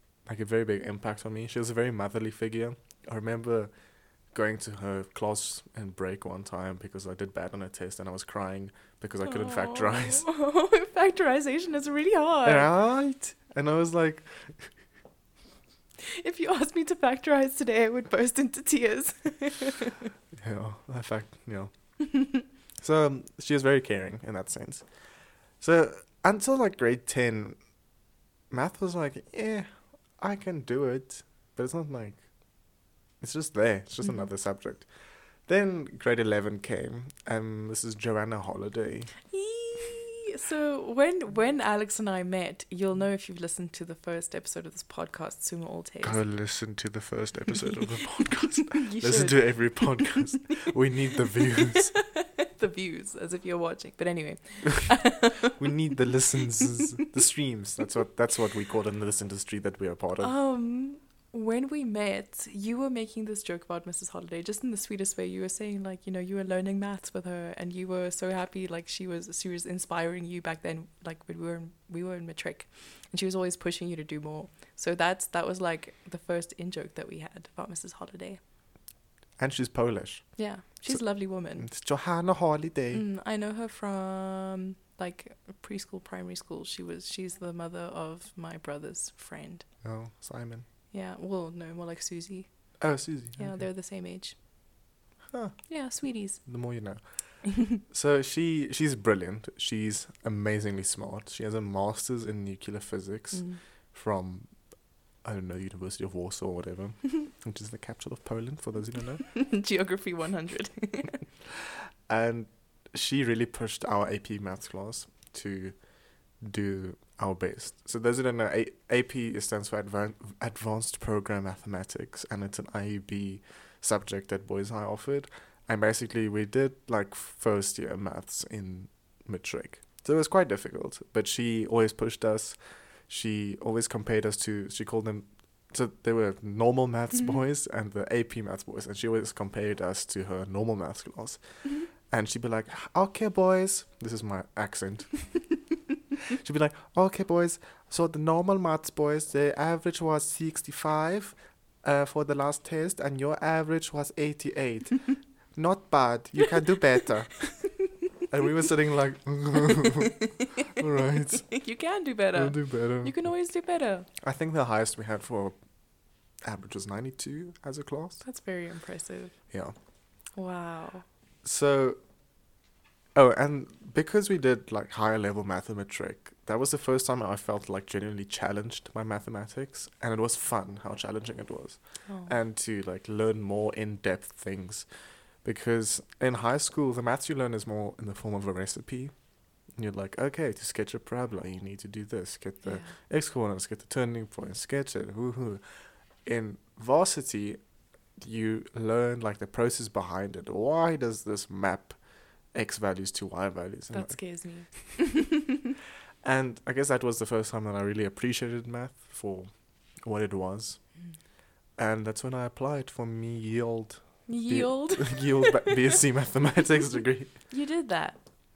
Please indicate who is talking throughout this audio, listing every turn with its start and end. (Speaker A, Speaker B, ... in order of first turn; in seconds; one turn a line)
Speaker A: 0.3-3.7
Speaker A: 4.3-10.2
Speaker B: 9.2-12.7
Speaker A: 12.4-14.7
Speaker B: 16.0-20.1
Speaker A: 20.4-21.7
Speaker A: 22.8-24.9
Speaker A: 25.6-27.6
Speaker A: 28.5-29.7
Speaker A: 30.2-32.2
Speaker A: 33.2-34.9
Speaker A: 35.5-39.1
Speaker B: 39.3-46.2
Speaker A: 46.0-51.9
Speaker B: 48.3-50.2
Speaker B: 51.6-55.9
Speaker A: 55.5-60.3
Speaker B: 56.5-56.9
Speaker B: 60.2-78.4
Speaker A: 79.4-80.2
Speaker B: 80.4-81.7
Speaker A: 81.6-83.0
Speaker B: 82.9-89.7
Speaker A: 89.8-90.7
Speaker B: 90.9-92.5
Speaker A: 92.8-93.7
Speaker B: 93.4-94.3
Speaker A: 95.3-95.6
Speaker B: 95.7-96.4
Speaker A: 96.5-97.0
Speaker B: 97.5-97.8
Speaker A: 97.8-104.5
Speaker B: 103.3-103.6
Speaker A: 105.2-109.2
Speaker B: 109.3-111.2
Speaker A: 111.5-115.8
Speaker A: 116.4-132.6
Speaker A: 133.1-141.4
Speaker A: 142.1-145.1
Speaker A: 146.2-157.5
Speaker A: 158.3-160.2
Speaker B: 159.8-164.1
Speaker A: 160.7-161.5
Speaker A: 162.3-163.2
Speaker A: 164.2-165.6
Speaker A: 166.4-168.2
Speaker B: 168.2-169.3
Speaker B: 170.4-171.1
Speaker A: 171.4-172.0
Speaker A: 173.2-184.9
Speaker A: 185.4-189.1
Speaker A: 189.8-195.6
Speaker B: 192.6-193.0
Speaker A: 196.2-197.6
Speaker A: 198.2-202.0
Speaker A: 202.5-204.2
Speaker B: 203.9-205.7
Speaker A: 206.2-209.5
Speaker A: 210.0-210.8
Speaker A: 211.8-217.3
Speaker B: 214.3-216.0
Speaker B: 217.5-218.2